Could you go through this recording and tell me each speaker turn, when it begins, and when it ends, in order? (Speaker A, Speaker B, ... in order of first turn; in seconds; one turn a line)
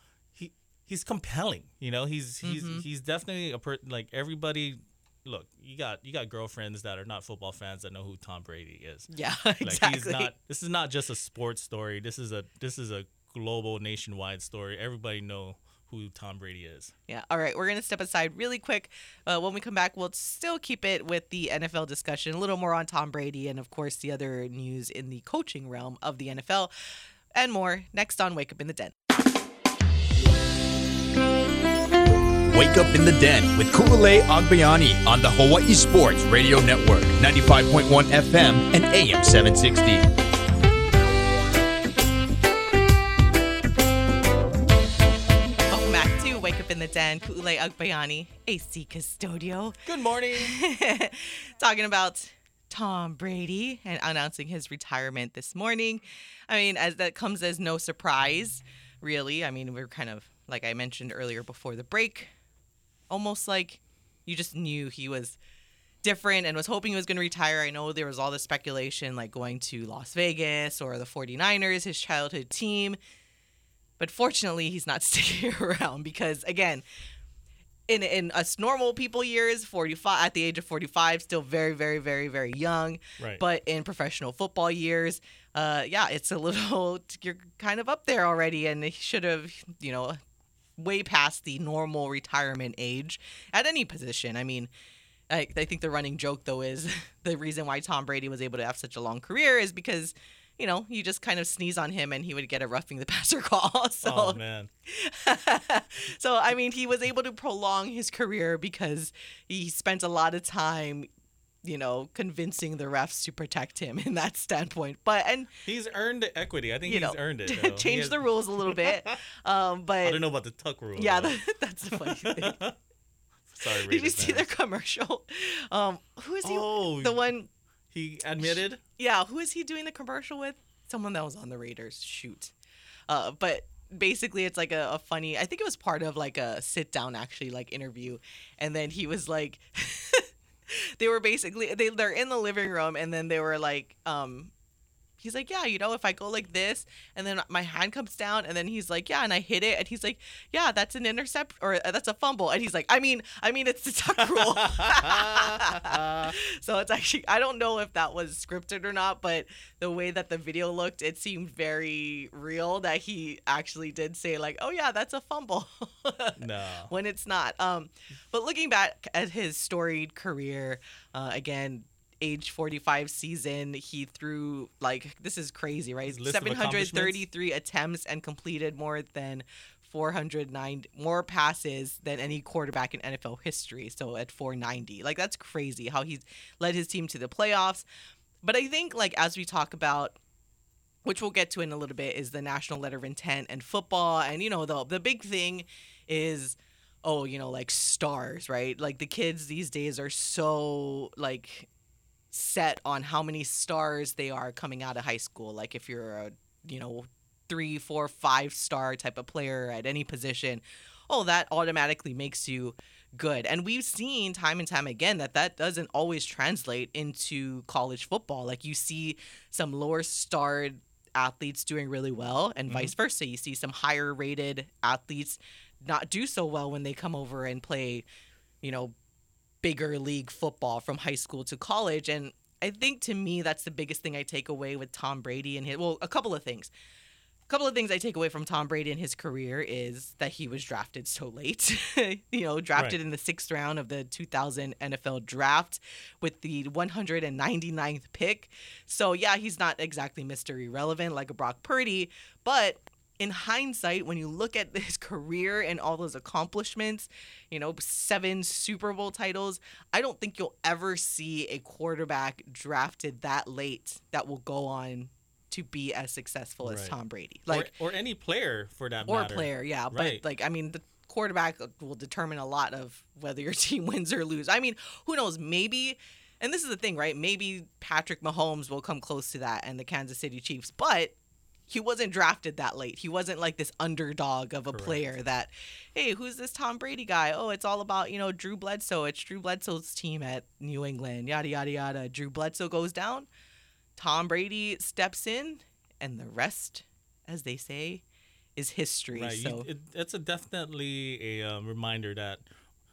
Speaker A: 0.3-9.1
Speaker B: 2.4-2.8
Speaker B: 9.1-10.3
Speaker A: 9.6-16.9
Speaker B: 17.1-26.7
Speaker B: 27.3-28.9
Speaker C: 32.5-40.0
Speaker B: 45.7-49.8
Speaker A: 49.9-50.6
Speaker B: 50.4-62.3
Speaker B: 63.1-65.4
Speaker B: 66.0-73.0
Speaker B: 74.0-76.8
Speaker B: 77.9-90.2
Speaker B: 90.8-94.7
Speaker B: 95.3-111.1
Speaker A: 104.0-104.7
Speaker B: 111.6-115.5
Speaker A: 115.6-119.1
Speaker B: 116.8-120.2
Speaker A: 120.0-121.4
Speaker B: 121.0-122.6
Speaker A: 121.9-122.7
Speaker A: 123.5-124.5
Speaker B: 123.6-127.5
Speaker A: 126.4-127.3
Speaker A: 127.9-128.8
Speaker B: 128.4-132.5
Speaker B: 133.1-144.5
Speaker B: 145.2-166.4
Speaker A: 154.3-156.3
Speaker A: 166.4-166.9
Speaker B: 166.9-187.8
Speaker A: 176.1-177.2
Speaker B: 188.4-190.2
Speaker B: 191.0-201.7
Speaker B: 202.3-228.0
Speaker B: 228.6-228.9
Speaker B: 229.6-236.7
Speaker B: 237.5-267.7
Speaker A: 266.6-266.9
Speaker A: 267.5-270.2
Speaker B: 269.1-281.1
Speaker B: 281.7-293.3
Speaker A: 284.7-285.0
Speaker B: 294.0-298.0
Speaker B: 298.6-299.7
Speaker A: 299.1-302.4